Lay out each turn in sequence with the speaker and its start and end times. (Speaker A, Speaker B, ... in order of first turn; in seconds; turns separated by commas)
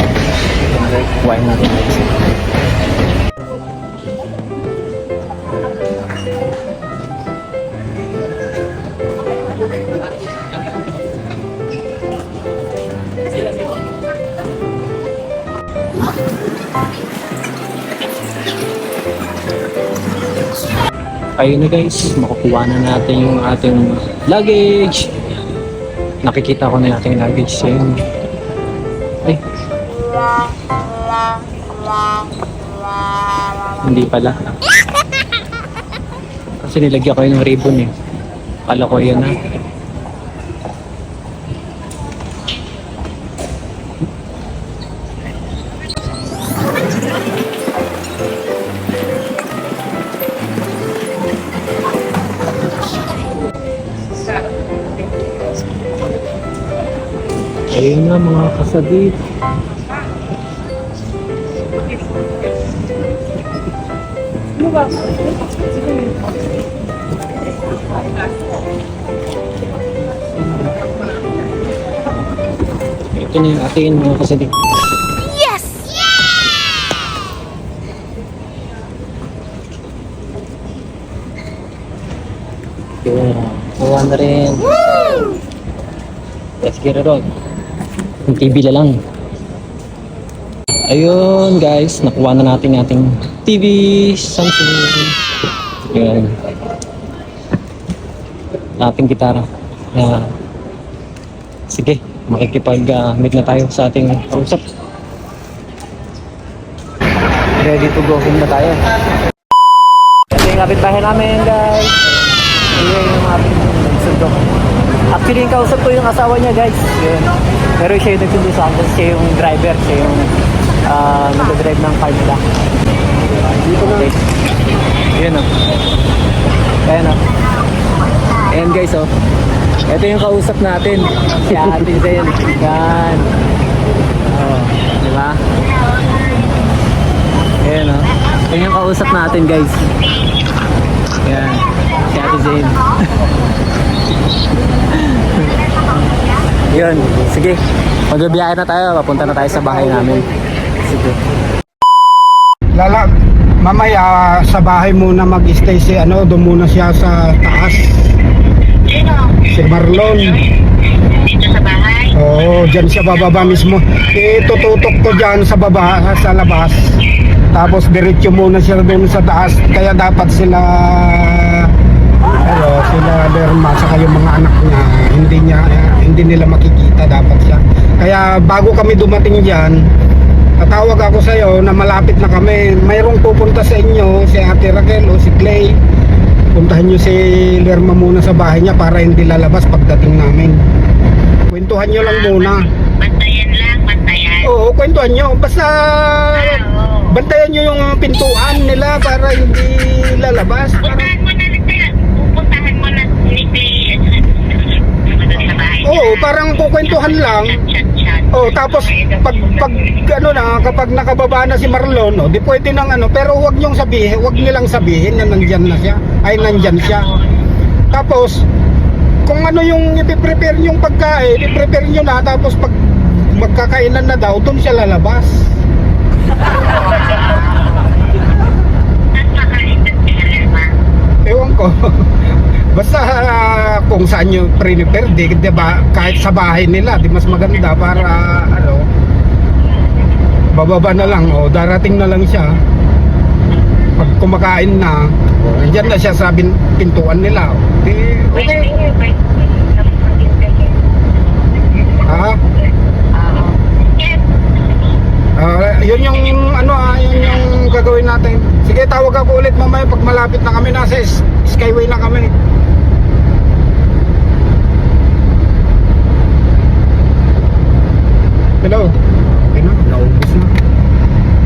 Speaker A: 0.7-2.1, Speaker A: 21.4-25.1, Speaker A: 26.2-28.0, Speaker A: 33.8-34.3, Speaker A: 36.6-37.9, Speaker A: 38.7-39.4, Speaker A: 57.7-59.1, Speaker A: 73.1-74.5, Speaker A: 83.0-84.7, Speaker A: 86.6-87.2, Speaker A: 88.3-89.0, Speaker A: 90.9-95.1, Speaker A: 95.9-96.3, Speaker A: 98.8-100.3, Speaker A: 101.7-104.6, Speaker A: 107.6-108.8, Speaker A: 110.3-111.9, Speaker A: 112.7-114.4, Speaker A: 115.1-120.3, Speaker A: 120.9-122.4, Speaker B: 123.6-124.0, Speaker A: 123.8-124.1, Speaker A: 125.1-125.5, Speaker A: 126.8-127.2, Speaker A: 128.5-129.1, Speaker A: 129.9-133.3, Speaker A: 134.3-135.4, Speaker A: 137.6-139.9, Speaker A: 141.2-143.0, Speaker A: 145.0-145.9, Speaker A: 146.7-150.2, Speaker B: 149.6-150.0, Speaker A: 150.8-151.2, Speaker B: 152.8-153.1, Speaker B: 153.6-157.8, Speaker C: 158.9-159.2, Speaker B: 159.5-160.4, Speaker C: 161.2-162.1, Speaker B: 162.1-166.8, Speaker B: 167.5-171.7, Speaker B: 172.4-179.8, Speaker B: 180.6-185.8, Speaker B: 186.5-190.6, Speaker B: 191.5-192.7, Speaker C: 192.0-194.5, Speaker B: 194.4-196.6, Speaker C: 196.4-197.0, Speaker B: 197.1-201.1, Speaker C: 200.8-204.2, Speaker C: 205.2-209.7, Speaker B: 205.8-207.6, Speaker B: 208.3-217.1, Speaker C: 216.6-217.0, Speaker B: 217.9-218.4, Speaker B: 219.2-225.4, Speaker C: 229.1-230.7, Speaker B: 231.2-231.7, Speaker B: 232.7-238.8, Speaker B: 240.5-242.5, Speaker B: 244.0-248.7, Speaker C: 248.3-251.1, Speaker B: 252.1-252.4, Speaker C: 253.1-254.2, Speaker B: 255.4-262.3, Speaker B: 268.6-270.5